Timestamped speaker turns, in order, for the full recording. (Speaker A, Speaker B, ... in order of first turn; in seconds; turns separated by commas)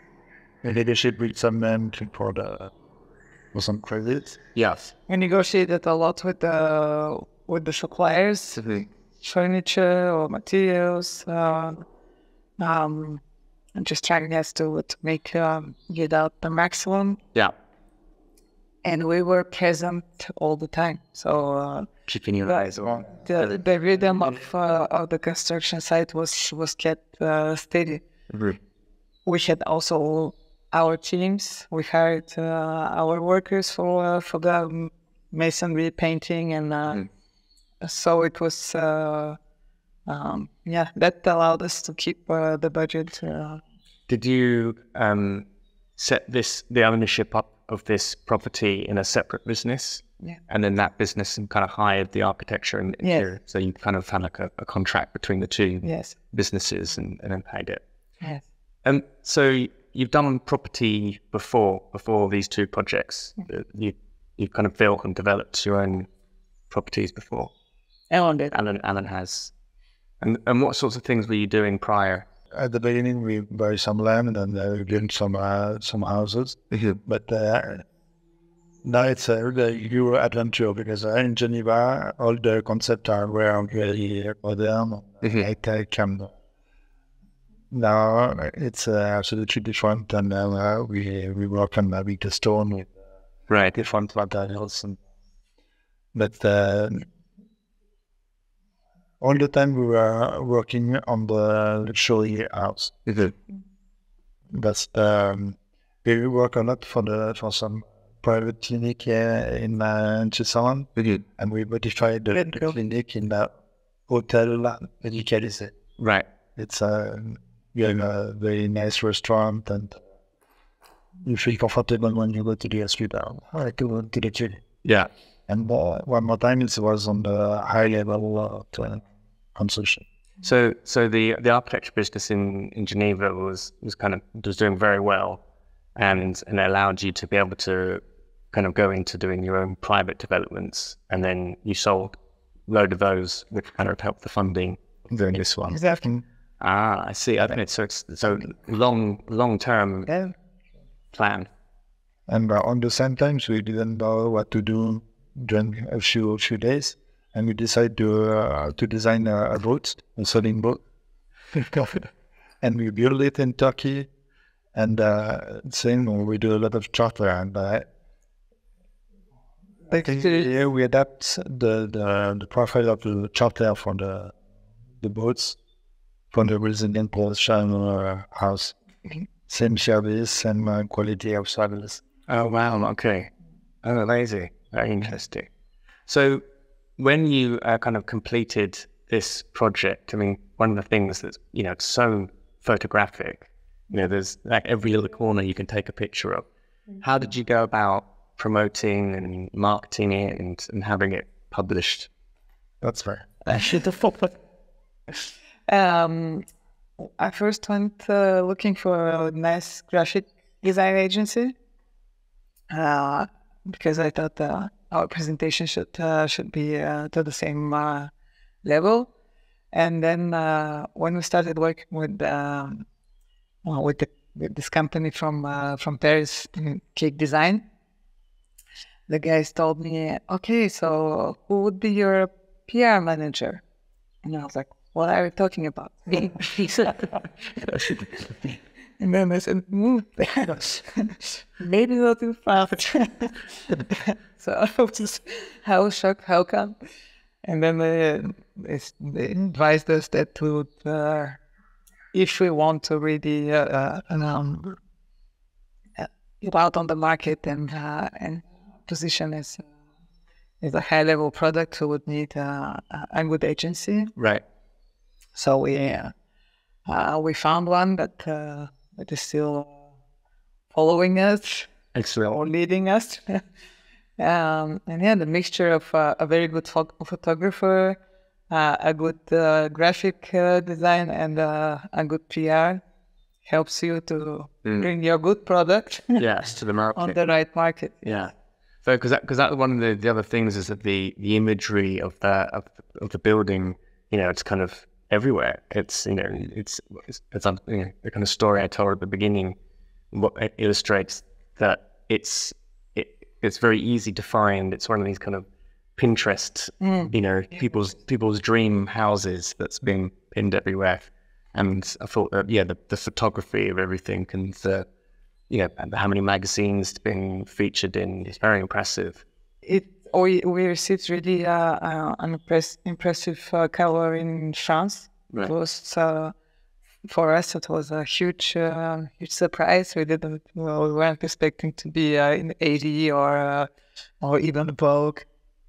Speaker A: 0.6-2.7, Speaker A: 3.5-4.4, Speaker B: 4.5-4.8, Speaker C: 5.1-8.6, Speaker B: 8.6-8.9, Speaker C: 9.2-11.8, Speaker C: 12.6-13.2, Speaker C: 13.8-17.2, Speaker C: 18.8-21.9, Speaker B: 22.1-23.5, Speaker C: 22.4-28.0, Speaker B: 28.3-28.6, Speaker C: 29.3-37.0, Speaker C: 37.8-39.4, Speaker C: 40.1-43.6, Speaker B: 44.1-45.5, Speaker B: 46.0-57.8, Speaker C: 53.0-53.3, Speaker C: 55.8-56.1, Speaker B: 58.9-66.1, Speaker B: 66.7-67.5, Speaker C: 68.1-68.5, Speaker B: 68.5-69.5, Speaker B: 70.2-72.3, Speaker A: 72.5-77.8, Speaker B: 76.7-77.0, Speaker A: 78.8-86.3, Speaker B: 85.2-85.5, Speaker A: 87.7-92.9, Speaker B: 93.5-93.7, Speaker A: 93.7-95.0, Speaker A: 96.1-97.1, Speaker A: 99.2-103.0, Speaker B: 103.1-103.3, Speaker A: 104.5-113.5, Speaker B: 111.0-111.2, Speaker C: 112.4-112.7, Speaker A: 114.1-115.7, Speaker B: 116.0-116.3, Speaker A: 116.6-120.0, Speaker A: 121.2-124.6, Speaker B: 124.8-125.1, Speaker A: 125.5-129.0, Speaker A: 129.6-130.1, Speaker B: 130.4-135.4, Speaker B: 136.0-142.2, Speaker B: 142.7-144.8, Speaker A: 145.1-145.4, Speaker B: 145.3-145.8, Speaker C: 145.7-146.1, Speaker B: 146.6-150.1, Speaker C: 150.1-150.3, Speaker B: 151.1-151.5, Speaker A: 152.3-160.8, Speaker A: 161.7-162.0, Speaker A: 162.6-164.1, Speaker A: 164.8-167.9, Speaker C: 169.9-170.5, Speaker A: 169.9-174.3, Speaker A: 175.0-175.6, Speaker A: 176.3-178.8, Speaker A: 179.5-182.0, Speaker B: 182.3-183.3, Speaker B: 183.8-185.5, Speaker B: 186.1-186.4, Speaker B: 187.0-196.5, Speaker B: 197.0-202.1, Speaker A: 202.8-203.7, Speaker B: 203.5-204.3, Speaker C: 205.7-206.4, Speaker C: 207.0-211.5, Speaker C: 212.7-218.1, Speaker C: 218.6-219.1, Speaker C: 219.7-222.8, Speaker C: 223.7-227.6, Speaker C: 229.1-233.6, Speaker C: 234.2-237.1, Speaker B: 237.7-238.1, Speaker C: 239.0-246.8, Speaker C: 247.4-251.4, Speaker C: 252.1-254.8, Speaker C: 256.0-259.6, Speaker C: 260.6-264.1, Speaker B: 264.2-264.4, Speaker C: 265.4-266.1, Speaker C: 266.9-269.8, Speaker C: 270.7-271.7, Speaker B: 271.9-272.4, Speaker C: 272.3-273.4, Speaker C: 274.2-278.0, Speaker C: 278.5-282.8, Speaker C: 283.5-286.2, Speaker B: 286.2-287.2, Speaker C: 287.0-287.9, Speaker B: 288.0-288.3, Speaker B: 288.8-299.6, Speaker B: 300.1-314.9, Speaker C: 306.8-307.1, Speaker B: 315.5-319.2, Speaker C: 319.6-326.3, Speaker C: 327.1-333.7, Speaker C: 334.2-335.3